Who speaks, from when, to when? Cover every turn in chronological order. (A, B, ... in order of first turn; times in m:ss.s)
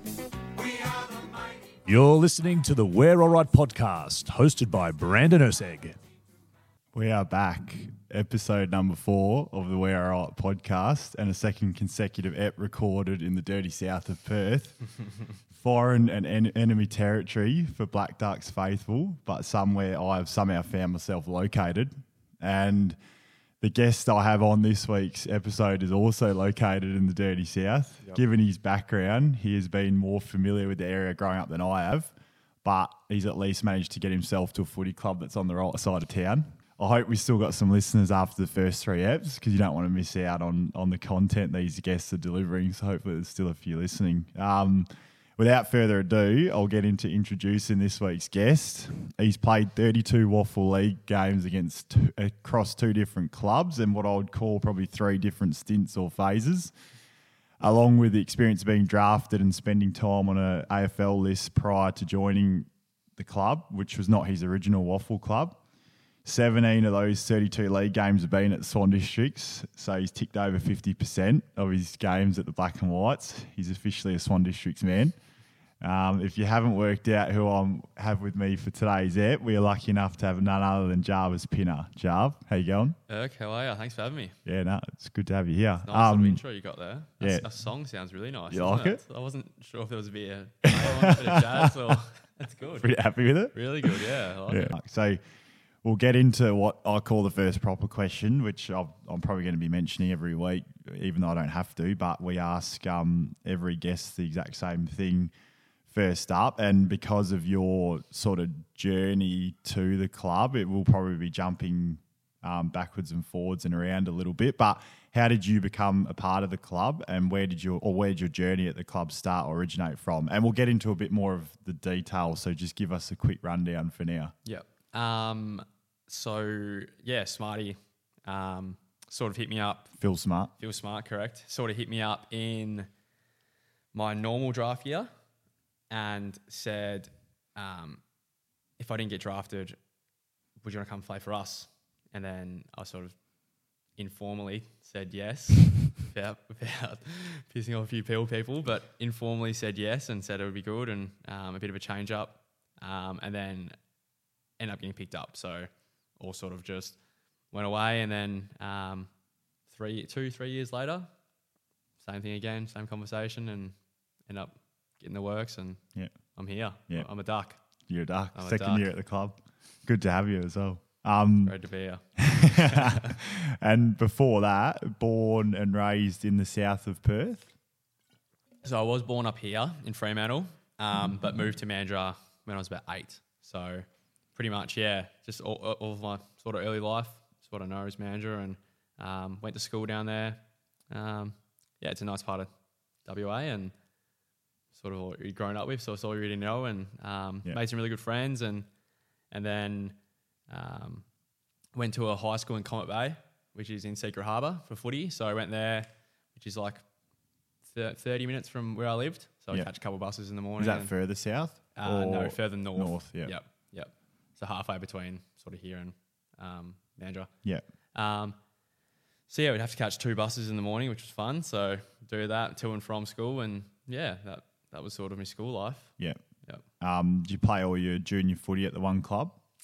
0:00.6-0:01.1 A
0:01.9-0:06.0 A
0:06.9-0:14.9 B
0:15.5-0:23.0 B
0:23.6-0:32.1 B
0:32.6-0:56.7 B
0:57.6-1:05.6 B
1:06.2-1:15.2 B
1:15.8-1:23.0 B
1:23.1-1:24.4 C
1:24.4-1:26.4 B
1:25.8-1:32.9 C
1:27.2-1:27.5 B
1:28.5-1:29.0 B
1:30.8-1:31.9 B
1:32.8-1:35.2 B
1:33.5-1:34.7 C
1:35.8-1:45.3 B
1:45.9-2:04.3 B
2:04.4-2:09.9 C
2:10.0-2:10.5 B
2:10.6-2:12.9 C
2:13.9-2:15.1 C
2:15.9-2:18.0 C
2:18.8-2:19.8 C
2:20.6-2:23.2 C
2:24.0-2:33.8 C
2:34.6-2:37.0 C
2:37.5-2:39.1 C
2:39.7-2:41.1 C
2:42.0-2:43.8 C
2:44.3-2:45.8 C
2:46.3-2:47.6 C
2:47.9-2:51.6 B
2:48.4-2:48.9 C
2:51.4-2:53.1 C
2:52.2-2:57.5 B
2:58.6-3:12.5 C
3:13.0-3:13.7 C
3:14.7-3:18.7 C
3:19.3-3:20.0 C
3:20.5-3:21.0 C
3:21.7-3:26.8 C
3:27.7-3:30.9 C
3:30.6-3:33.4 B
3:31.8-3:37.3 C
3:38.0-3:38.4 C
3:39.3-3:45.9 C
3:46.8-3:49.4 B